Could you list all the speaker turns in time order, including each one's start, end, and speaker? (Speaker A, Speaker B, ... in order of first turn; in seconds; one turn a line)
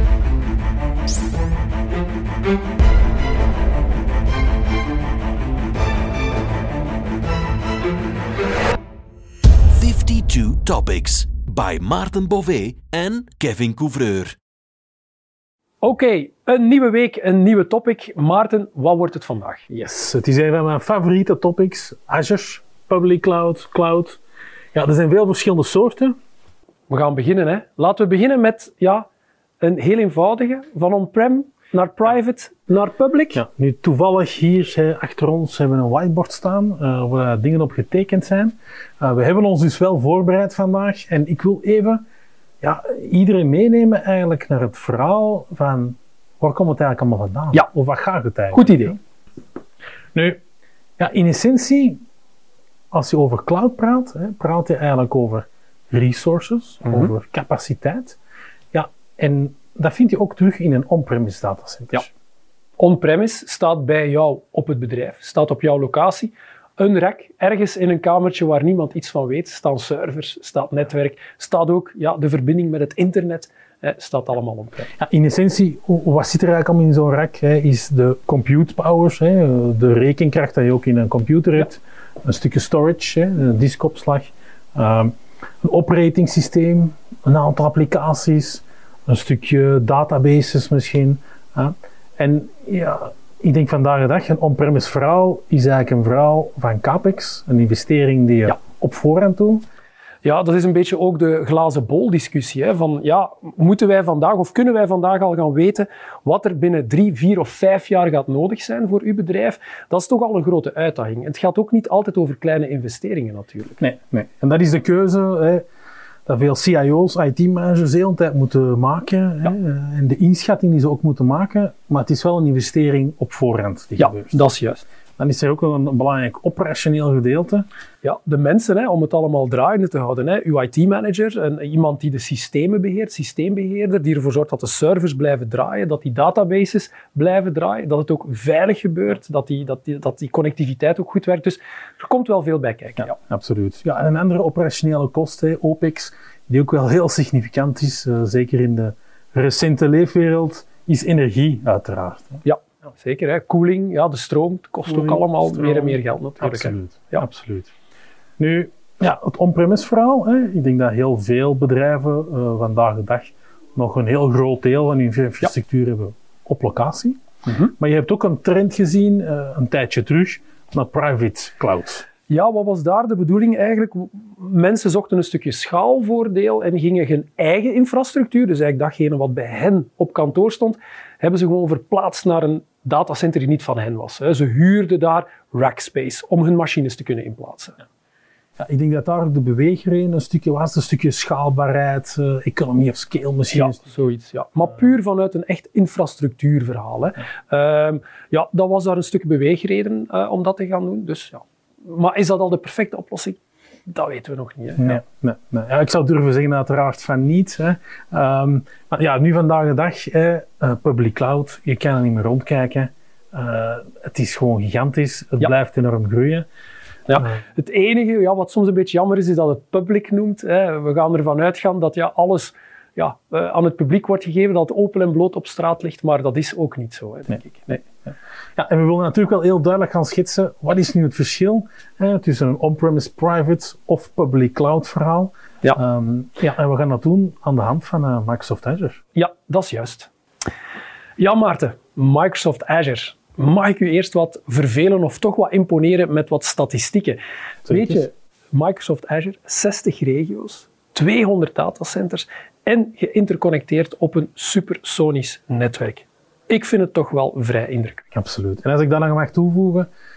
Speaker A: 9.7-14.3
Speaker B: 15.8-19.7
Speaker C: 19.7-24.2
Speaker C: 24.7-26.1
Speaker B: 26.9-29.1
Speaker B: 29.6-33.4
Speaker C: 33.3-42.0
Speaker C: 42.6-49.0
Speaker B: 48.5-49.0
Speaker C: 51.0-52.0
Speaker C: 52.9-58.2
Speaker C: 58.7-62.1
Speaker B: 62.8-74.9
Speaker C: 75.0-99.6
Speaker B: 100.2-113.8
Speaker C: 113.8-115.6
Speaker C: 116.2-124.4
Speaker B: 124.0-124.8
Speaker C: 125.2-127.7
Speaker B: 128.0-143.2
Speaker C: 143.0-152.4
Speaker B: 152.4-157.2
Speaker C: 154.8-157.7
Speaker C: 158.4-172.1
Speaker B: 167.5-167.7
Speaker B: 172.3-187.8
Speaker C: 188.6-193.8
Speaker B: 193.5-205.0
Speaker C: 204.8-216.4
Speaker B: 217.1-227.8
Speaker C: 228.6-239.0
Speaker B: 239.1-240.1
Speaker B: 241.2-258.1
Speaker C: 247.7-248.1
Speaker C: 258.1-259.9